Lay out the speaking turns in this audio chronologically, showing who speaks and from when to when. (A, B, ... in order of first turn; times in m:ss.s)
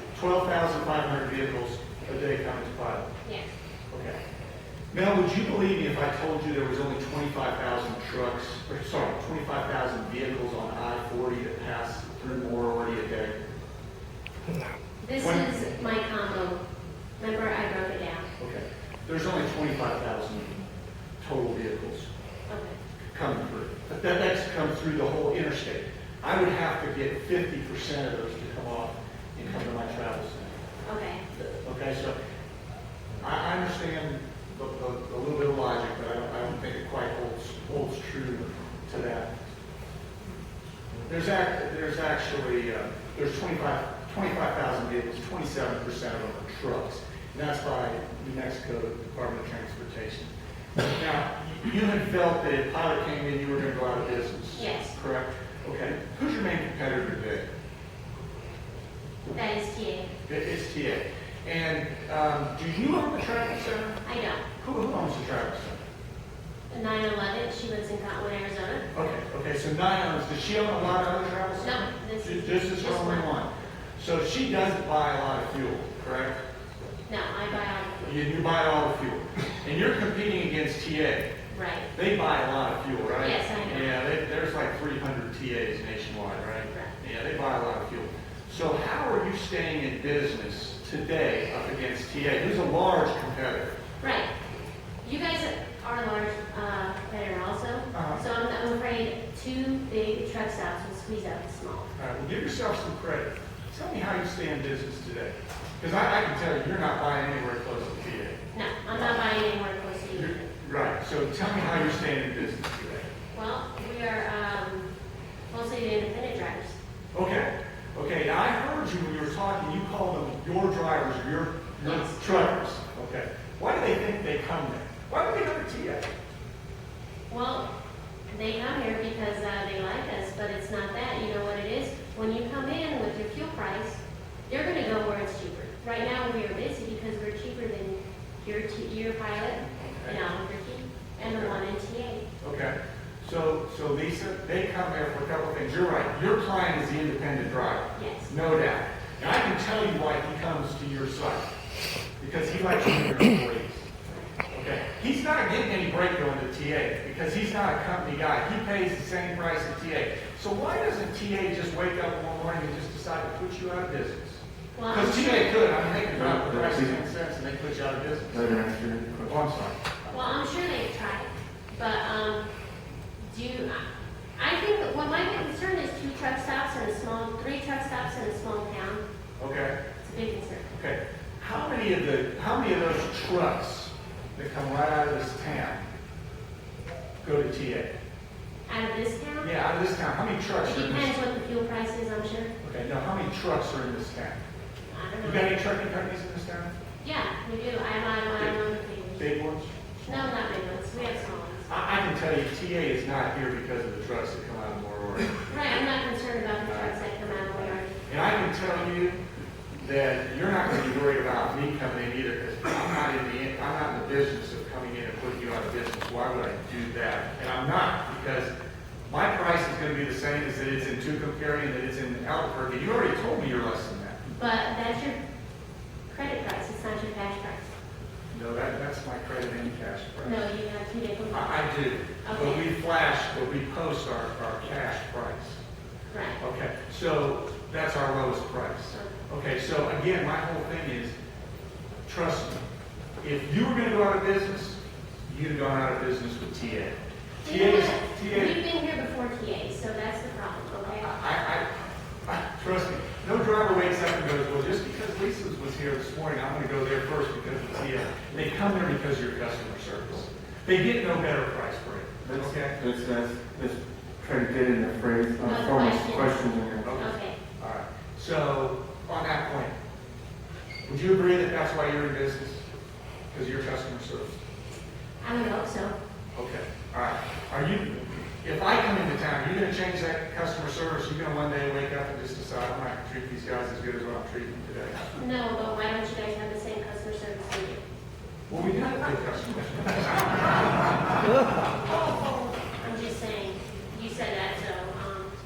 0:00.1-0:03.1 A
0:03.9-0:04.2 A
0:04.9-0:13.4 A
0:15.0-0:16.6 B
0:15.2-0:15.5 A
0:17.2-0:18.2 B
0:18.4-0:20.6 A
0:21.2-0:22.1 A
0:22.5-0:22.8 B
0:23.1-0:30.6 A
0:30.8-0:31.2 B
0:31.3-0:32.2 A
0:33.2-0:39.3 A
0:41.0-0:57.4 A
0:54.5-0:54.9 B
0:59.3-1:00.1 B
1:00.3-1:04.0 A
1:04.0-1:04.4 B
1:04.6-1:05.8 A
1:06.7-1:08.8 B
1:08.9-1:16.4 A
1:11.6-1:13.3 B
1:17.1-1:18.1 B
1:18.0-1:21.3 A
1:21.5-1:21.9 B
1:21.9-1:33.7 A
1:23.2-1:23.9 B
1:34.0-1:34.3 B
1:35.0-1:41.9 B
1:37.9-1:38.2 A
1:42.0-1:48.4 A
1:48.5-1:50.5 B
1:48.9-1:49.2 A
1:50.1-1:53.1 A
1:53.3-1:54.9 B
1:55.5-1:56.8 B
1:57.1-2:06.1 A
2:01.8-2:02.2 B
2:07.3-2:07.7 B
2:08.3-2:22.2 B
2:21.2-2:21.6 A
2:22.4-2:31.5 A
2:27.9-2:28.3 B
2:32.2-2:33.9 A
2:34.5-2:48.5 A
2:44.8-2:45.5 B
2:46.1-2:47.0 C
2:48.3-2:49.4 C
2:49.3-2:49.8 A
2:50.1-2:52.4 B
2:53.3-2:53.8 B
2:54.4-2:59.0 B
2:59.4-2:59.8 A
3:00.0-3:00.7 B
3:00.7-3:05.8 A
3:07.2-3:07.9 A
3:08.7-3:09.5 B
3:09.4-3:11.1 A
3:10.6-3:12.5 B
3:12.6-3:14.4 A
3:14.9-3:15.5 B
3:15.2-3:16.7 A
3:17.0-3:19.3 B
3:19.2-3:25.3 A
3:20.0-3:21.7 B
3:25.5-3:27.9 B
3:26.6-3:27.0 A
3:27.5-3:29.2 A
3:29.8-3:38.5 A
3:39.1-3:44.2 A
3:44.3-3:45.2 B
3:46.1-3:47.7 B
3:48.3-3:50.4 A
3:50.2-3:51.7 B
3:51.3-3:55.6 A
3:52.2-3:52.6 B
3:56.1-3:56.4 B
3:56.4-4:01.1 A
4:02.1-4:02.6 A
4:03.2-4:08.6 A
4:07.4-4:11.1 B
4:10.8-4:11.6 A
4:12.3-4:22.8 A
4:22.2-4:26.9 C
4:25.4-4:26.4 B
4:26.8-4:29.7 A
4:27.0-4:27.4 B
4:30.8-4:32.6 A
4:33.3-4:34.4 A
4:35.2-4:35.9 B
4:36.3-4:45.2 A
4:45.2-4:47.8 B
4:48.5-4:50.8 A
4:52.1-4:55.3 B